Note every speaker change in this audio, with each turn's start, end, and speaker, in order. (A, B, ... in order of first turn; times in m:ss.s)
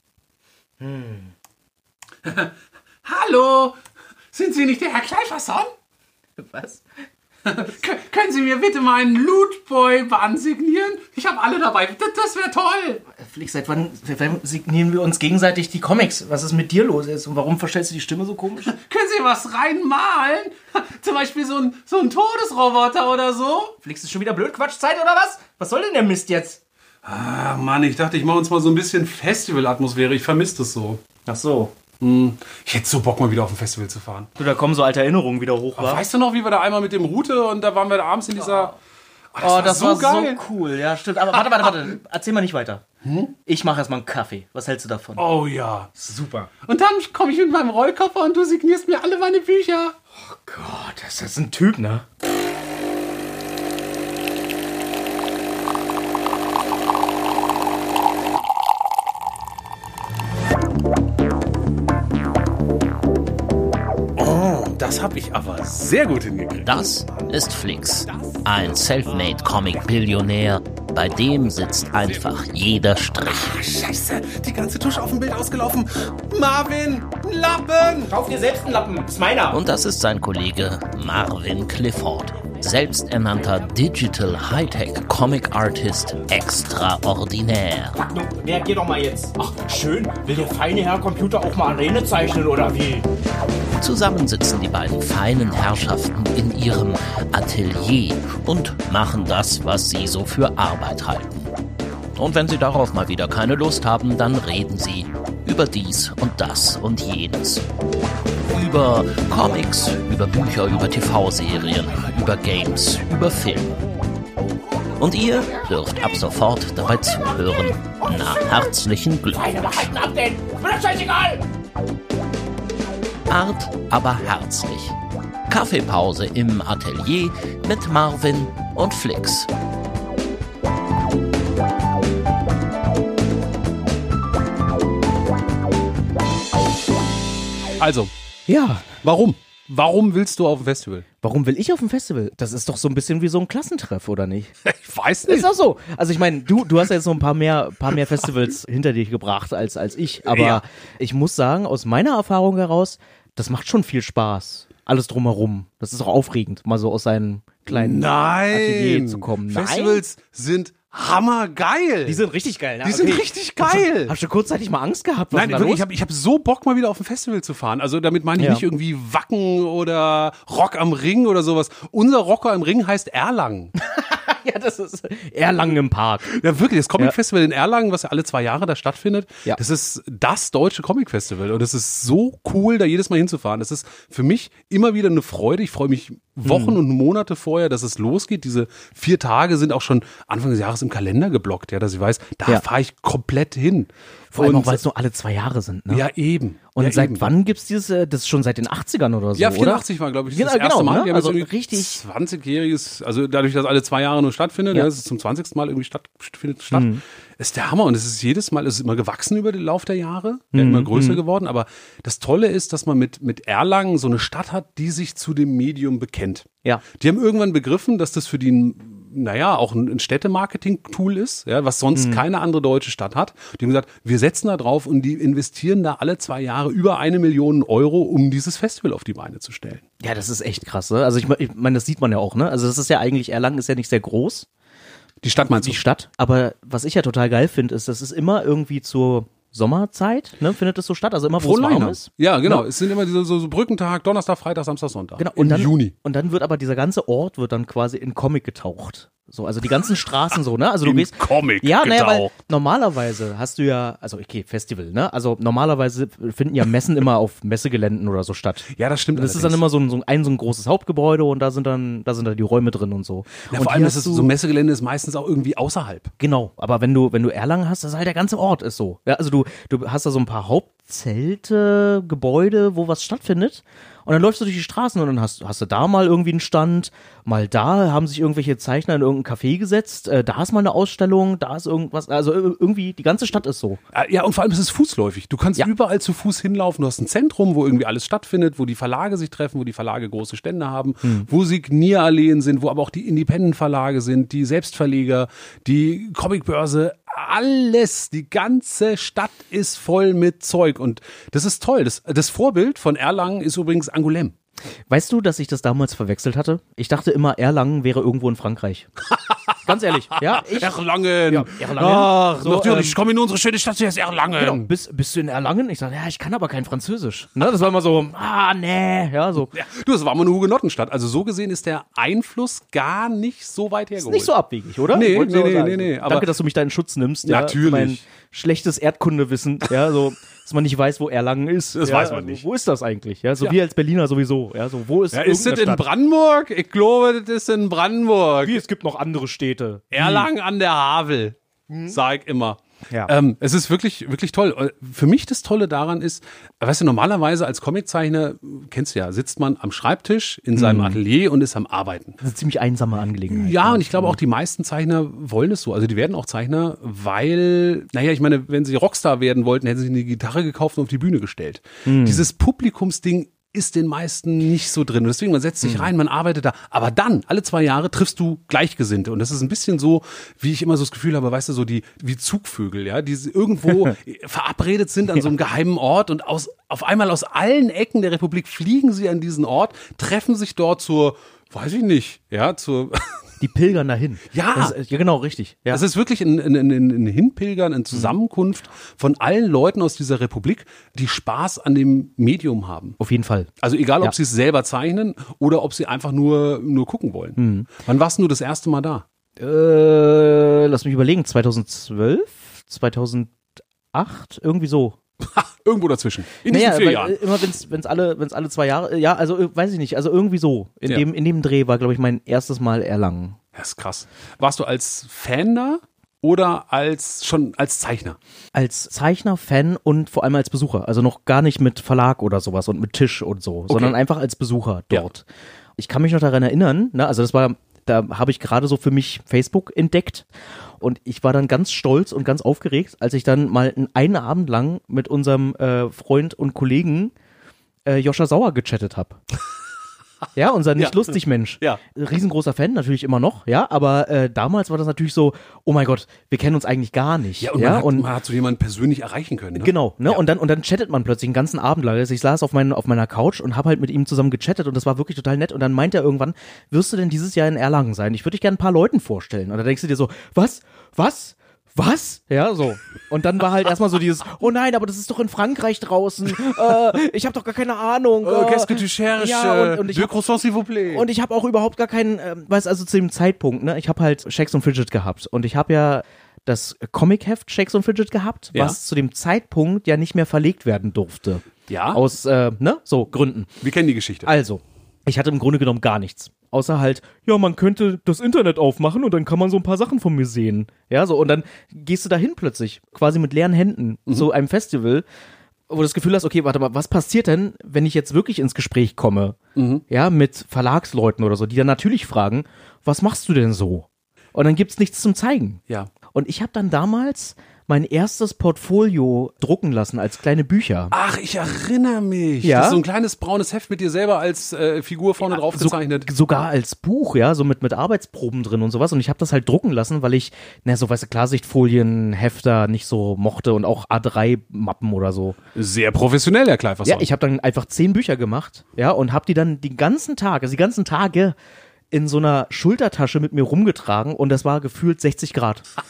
0:00.8-0:01.3 A
0:02.2-0:02.5 B
0:03.0-0:03.8 B
0:04.3-0:05.7 B
0:06.4-0:06.8 A
0:07.4-0:13.0 B
0:13.2-0:18.7 A
0:18.6-0:23.7 B
0:23.8-0:26.6 A
0:27.0-0:31.0 B
0:31.2-0:31.7 A
0:32.0-0:34.3 B
0:34.4-0:36.0 A
0:35.8-0:38.7 B
0:39.3-0:40.4 B
0:39.4-0:42.8 A
0:43.0-0:43.3 B
0:43.4-0:45.2 A
0:45.2-0:50.0 B
0:46.0-0:46.5 A
0:50.3-0:52.0 A
1:04.2-1:06.9 B
1:06.6-1:13.5 C
1:08.1-1:08.8 B
1:13.3-1:18.1 B
1:18.1-1:19.6 A
1:19.5-1:28.0 C
1:28.0-1:33.0 A
1:33.8-1:41.4 C
1:42.2-1:47.6 C
1:48.5-1:53.8 C
1:55.0-1:59.9 C
1:59.3-2:01.4 A
2:03.3-2:05.0 C
2:05.5-2:09.5 C
2:17.8-2:18.1 B
2:18.5-2:18.9 A
2:19.0-2:21.0 B
2:21.2-2:24.5 A
2:24.6-2:25.5 B
2:25.3-2:40.0 A
2:30.2-2:30.6 B
2:37.7-2:42.2 B
2:42.0-2:45.8 A
2:42.8-2:44.1 B
2:45.3-2:53.7 B
2:48.4-2:48.6 A
2:53.8-2:56.3 A
2:56.2-3:14.8 B
3:06.4-3:06.8 A
3:14.3-3:16.0 A
3:15.9-3:17.3 B
3:16.7-3:22.0 A
3:19.4-3:49.8 B
3:26.7-3:27.0 A
3:30.5-3:31.2 A
3:41.9-3:42.2 A
3:50.0-3:54.5 A
3:55.2-3:55.8 B
3:55.4-4:02.6 A
4:01.4-4:05.9 B
4:05.2-4:24.3 A
4:10.8-4:12.3 B
4:18.7-4:19.6 B
4:23.5-4:26.1 B
4:26.2-4:43.8 A
4:43.9-5:04.3 B
5:04.9-5:08.9 A
5:09.1-5:09.5 B
5:09.6-5:10.7 A
5:10.2-5:14.7 B
5:11.3-5:13.0 A
5:14.4-5:19.5 A
5:19.4-5:24.3 B
5:24.0-5:35.8 A
5:24.9-5:26.3 B
5:27.2-5:28.0 B
5:31.8-5:32.4 B
5:35.1-5:38.6 B
5:38.4-5:40.3 A
5:39.9-5:41.4 B
5:41.7-5:42.0 A
5:41.9-5:52.2 B
5:50.5-5:51.0 A
5:52.2-5:54.2 A
5:53.3-6:23.3 B
6:01.8-6:02.3 A
6:23.4-6:25.8 A
6:24.3-6:24.8 B
6:25.7-6:33.0 B
6:33.0-6:34.1 A
6:33.6-6:39.0 B
6:37.4-6:37.7 A
6:39.4-6:43.4 A
6:43.9-6:45.0 A
6:45.2-6:47.2 B
6:46.4-6:53.4 A
6:53.5-6:58.2 B
6:58.5-7:05.2 A
7:03.7-7:04.0 B
7:05.8-7:10.3 A
7:10.8-7:17.1 A
7:17.8-7:19.2 A
7:20.3-7:28.1 A
7:20.8-7:21.0 B
7:27.4-7:30.2 B
7:29.6-7:50.1 A
7:48.2-7:51.0 B
7:50.9-8:03.6 A
8:01.7-8:02.0 B
8:03.6-8:04.3 B
8:04.2-8:15.0 A
8:15.7-8:19.4 A
8:19.6-8:19.8 B
8:19.9-8:25.6 A
8:26.1-8:30.9 A
8:30.9-8:36.1 B
8:32.4-8:32.8 A
8:35.2-8:45.4 A
8:45.5-8:47.1 B
8:46.8-8:51.3 A
8:51.9-8:55.7 A